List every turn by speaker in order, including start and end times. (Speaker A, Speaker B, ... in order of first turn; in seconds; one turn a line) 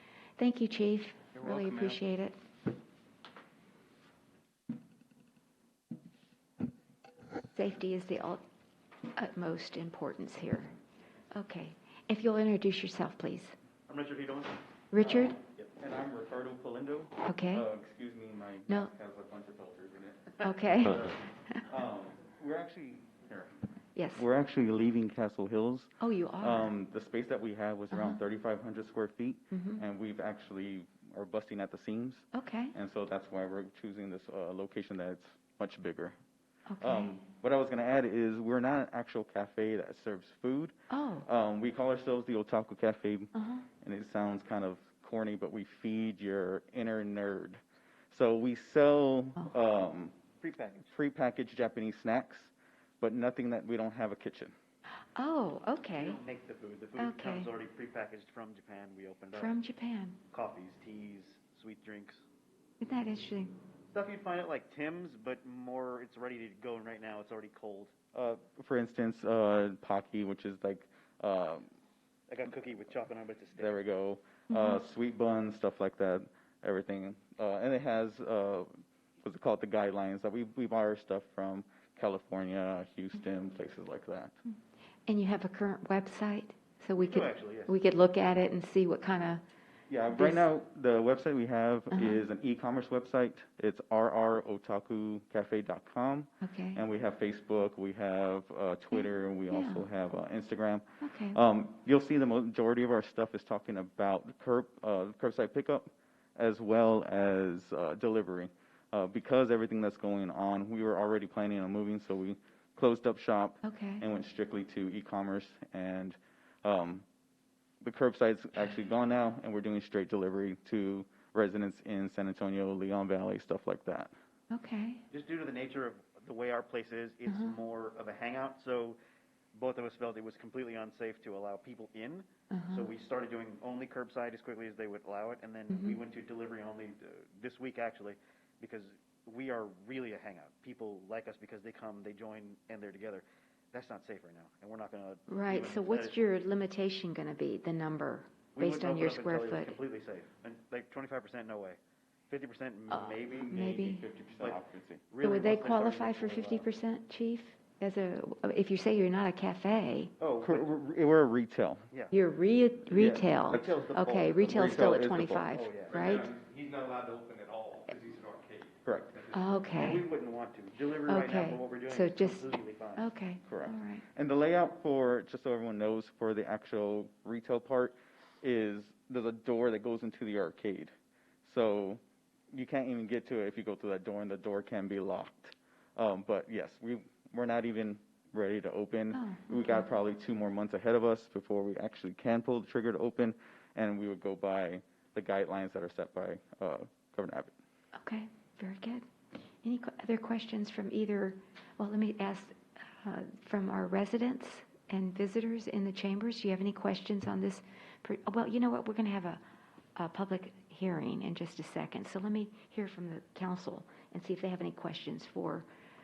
Speaker A: 0.4-2.4
Speaker B: 1.4-2.0
Speaker A: 7.5-8.4
Speaker A: 9.1-10.7
Speaker A: 11.3-13.5
Speaker C: 13.9-14.6
Speaker A: 14.9-15.3
Speaker B: 15.0-23.6
Speaker A: 17.2-17.6
Speaker A: 20.4-21.6
Speaker A: 23.9-24.2
Speaker B: 24.1-36.1
Speaker A: 26.0-26.7
Speaker A: 27.9-28.2
Speaker A: 29.5-29.8
Speaker A: 32.3-32.7
Speaker A: 36.7-37.1
Speaker B: 36.8-47.6
Speaker A: 40.9-41.2
Speaker A: 43.4-43.6
Speaker B: 48.1-50.2
Speaker C: 50.4-50.9
Speaker B: 50.9-54.5
Speaker A: 55.1-56.2
Speaker C: 55.9-59.5
Speaker A: 57.0-57.5
Speaker A: 59.3-60.2
Speaker C: 60.3-62.2
Speaker A: 62.8-63.5
Speaker C: 63.9-67.9
Speaker B: 68.1-71.7
Speaker C: 72.3-73.8
Speaker B: 73.6-78.7
Speaker A: 74.5-74.8
Speaker B: 79.2-84.3
Speaker A: 85.1-89.4
Speaker C: 87.0-87.8
Speaker B: 89.9-117.0
Speaker A: 90.1-90.4
Speaker A: 91.9-92.2
Speaker A: 96.4-96.8
Speaker A: 98.9-99.8
Speaker A: 101.0-101.4
Speaker A: 113.6-114.0
Speaker B: 117.8-124.1
Speaker A: 124.5-125.0
Speaker C: 125.1-129.0
Speaker A: 127.3-127.5
Speaker C: 129.5-146.3
Speaker A: 132.5-132.9
Speaker A: 135.7-136.0
Speaker A: 145.3-149.8
Speaker C: 148.5-151.8
Speaker C: 152.3-153.5
Speaker A: 152.9-154.0
Speaker B: 153.3-155.1
Speaker C: 155.1-156.7
Speaker A: 155.2-160.1
Speaker C: 160.2-160.7
Speaker B: 160.4-161.9
Speaker A: 162.1-166.3
Speaker B: 162.9-163.8
Speaker C: 163.5-164.8
Speaker B: 164.3-165.7
Speaker C: 165.5-166.1
Speaker D: 165.9-169.4
Speaker B: 168.8-169.2
Speaker A: 169.3-170.0
Speaker C: 169.7-173.1
Speaker A: 171.1-174.0
Speaker B: 173.4-180.9
Speaker B: 181.4-182.0
Speaker B: 182.5-197.5
Speaker A: 189.1-189.8
Speaker A: 198.0-199.0
Speaker A: 199.6-209.4
Speaker A: 209.9-215.7